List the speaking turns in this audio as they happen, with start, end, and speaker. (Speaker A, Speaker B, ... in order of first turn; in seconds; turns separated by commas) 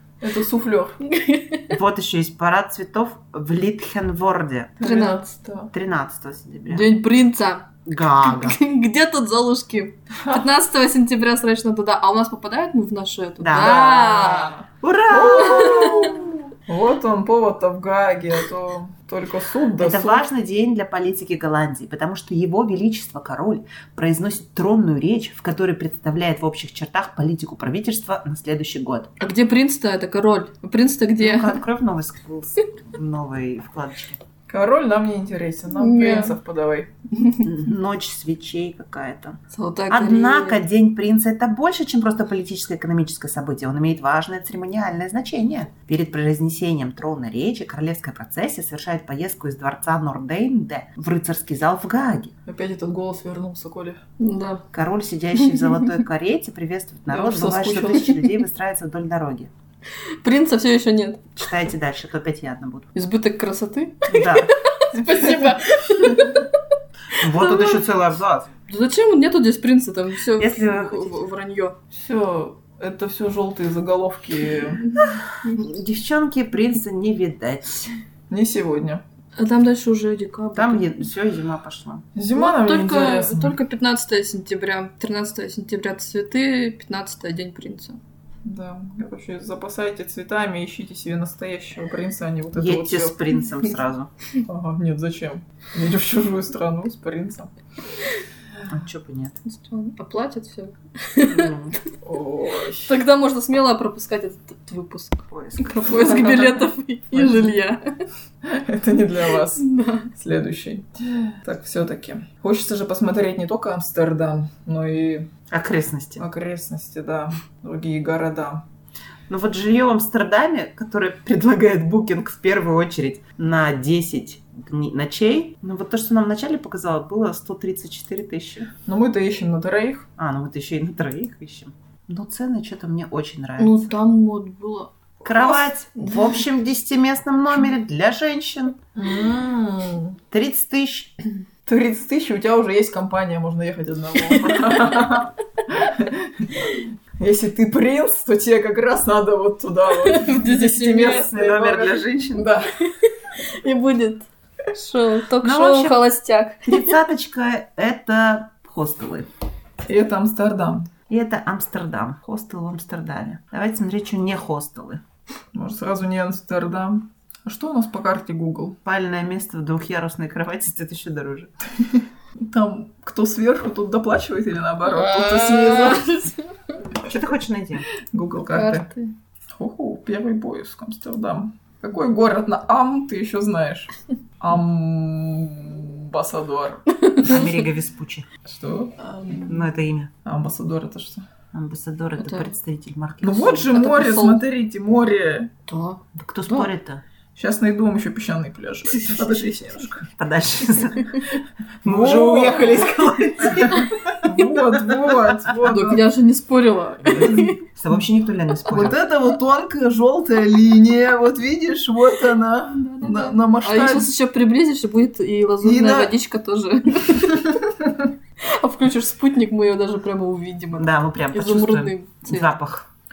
Speaker A: 0.2-1.0, Speaker B: 1.0-1.8, Speaker C: 1.7-4.8, Speaker A: 4.8-5.7, Speaker B: 4.8-5.3, Speaker C: 5.7-6.9, Speaker B: 6.7-14.6, Speaker C: 7.8-8.6, Speaker A: 10.2-10.4, Speaker C: 13.4-16.1, Speaker A: 15.1-20.2, Speaker B: 15.3-16.1, Speaker C: 19.8-29.1, Speaker B: 29.2-31.6, Speaker C: 31.2-34.2, Speaker A: 34.5-36.9, Speaker B: 35.7-36.4, Speaker B: 37.2-37.5, Speaker C: 37.4-39.4, Speaker B: 39.5-40.6, Speaker C: 39.9-52.3, Speaker A: 52.5-54.0, Speaker B: 54.2-54.6, Speaker C: 54.7-59.5, Speaker B: 55.4-55.9, Speaker A: 57.1-58.2, Speaker B: 60.2-61.4, Speaker C: 61.4-62.9, Speaker B: 62.9-66.5, Speaker C: 64.1-64.5, Speaker C: 67.2-68.5, Speaker B: 67.2-67.8, Speaker B: 68.7-71.8, Speaker C: 70.4-71.2, Speaker A: 71.9-74.8, Speaker C: 75.5-77.9, Speaker A: 78.3-79.0, Speaker B: 79.3-81.0, Speaker C: 80.5-82.0, Speaker A: 82.1-83.6, Speaker B: 82.3-88.0, Speaker A: 88.4-93.2, Speaker C: 92.5-94.1, Speaker A: 94.4-97.5, Speaker C: 98.7-99.4, Speaker B: 99.5-101.5, Speaker C: 101.2-101.8, Speaker A: 102.0-102.9, Speaker B: 102.9-107.8, Speaker C: 105.3-106.0, Speaker A: 105.8-107.5, Speaker A: 108.4-115.3, Speaker B: 109.6-110.1, Speaker C: 115.5-116.2, Speaker A: 116.2-118.6, Speaker C: 119.3-128.7, Speaker A: 128.8-130.1, Speaker C: 130.2-133.9, Speaker B: 133.6-134.9, Speaker C: 135.2-138.8, Speaker B: 136.0-136.3, Speaker A: 138.9-140.2, Speaker C: 140.3-141.1, Speaker A: 141.7-152.7, Speaker B: 144.3-144.8, Speaker B: 150.0-151.3, Speaker C: 150.9-152.5, Speaker B: 153.0-156.9, Speaker C: 155.4-156.0, Speaker C: 156.7-159.3, Speaker A: 159.8-160.9, Speaker C: 161.1-165.0, Speaker A: 165.5-168.8, Speaker C: 168.8-171.5, Speaker A: 171.8-176.3, Speaker B: 174.9-176.4, Speaker C: 177.0-177.9, Speaker A: 178.1-178.9, Speaker B: 178.5-179.1, Speaker A: 179.5-186.8, Speaker B: 187.0-187.5, Speaker C: 187.2-188.3, Speaker A: 188.4-189.6, Speaker C: 189.5-190.1, Speaker A: 190.2-191.3, Speaker C: 191.5-193.8, Speaker B: 192.2-192.5, Speaker A: 193.2-195.5, Speaker B: 193.7-194.4, Speaker B: 195.7-196.7, Speaker C: 196.1-197.0, Speaker A: 197.3-200.1, Speaker C: 200.1-201.3, Speaker A: 201.8-202.9, Speaker C: 201.8-205.3, Speaker A: 204.2-206.0, Speaker B: 205.7-207.6, Speaker C: 207.1-209.0, Speaker A: 208.7-214.1, Speaker B: 212.8-217.7, Speaker C: 215.6-216.1, Speaker A: 217.8-218.1, Speaker B: 218.4-222.5, Speaker C: 220.8-222.9